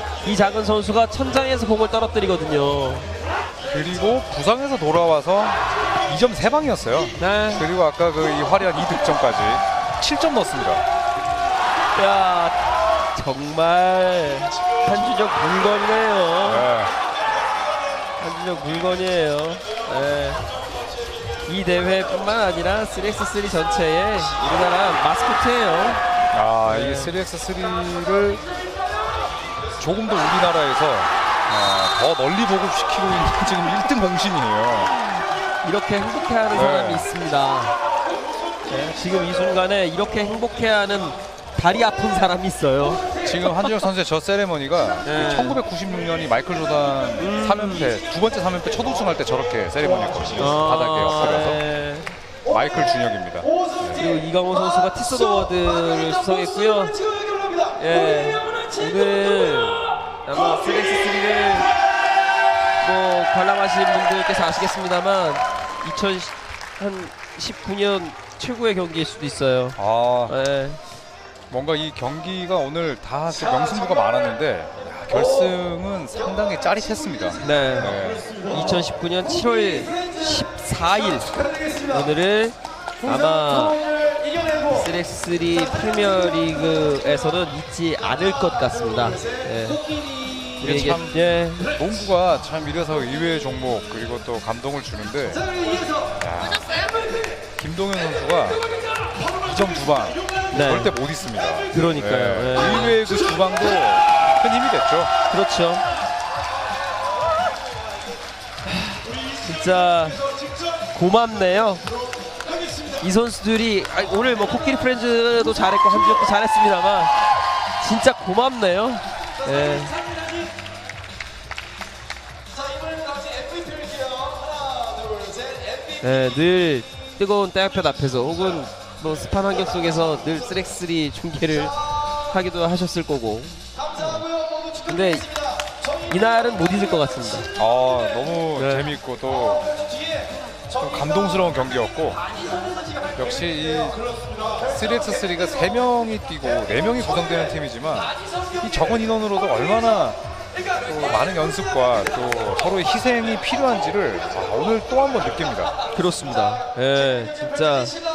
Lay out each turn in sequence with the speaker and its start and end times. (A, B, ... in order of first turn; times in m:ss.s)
0:00.2-0:03.1 A
0:03.7-0:10.8 B
0:07.2-0:07.6 A
0:11.9-0:12.6 A
0:13.1-0:16.6 A
0:16.4-0:16.9 B
0:18.2-0:20.4 A
0:21.4-0:26.0 A
0:26.3-0:28.4 B
0:26.6-0:27.1 A
0:29.8-0:34.9 B
0:35.6-0:37.8 A
0:36.5-0:37.1 B
0:38.7-0:43.0 A
0:43.2-0:51.6 B
0:45.0-0:45.6 A
0:47.2-0:47.8 A
0:50.4-0:52.1 A
0:52.5-0:54.0 B
0:53.9-0:57.0 A
0:57.7-1:01.7 A
1:02.8-1:10.8 A
1:09.8-1:10.4 B
1:11.5-1:18.3 B
1:17.4-1:23.8 A
1:24.6-1:29.8 A
1:30.6-1:31.6 A
1:30.6-1:31.2 B
1:31.7-1:35.5 B
1:36.2-1:36.8 B
1:37.6-1:38.6 B
1:39.3-1:45.1 B
1:40.5-1:40.9 A
1:41.7-1:43.0 A
1:45.3-1:45.8 A
1:48.6-1:50.2 A
1:50.9-1:51.9 A
1:53.0-1:57.1 A
1:57.8-2:00.0 A
2:06.0-2:14.3 A
2:14.8-2:15.3 A
2:16.1-2:17.5 A
2:17.6-2:19.7 B
2:18.6-2:18.9 A
2:20.7-2:22.2 B
2:23.2-2:24.0 B
2:24.6-2:30.2 B
2:30.9-2:35.7 B
2:35.9-2:38.0 A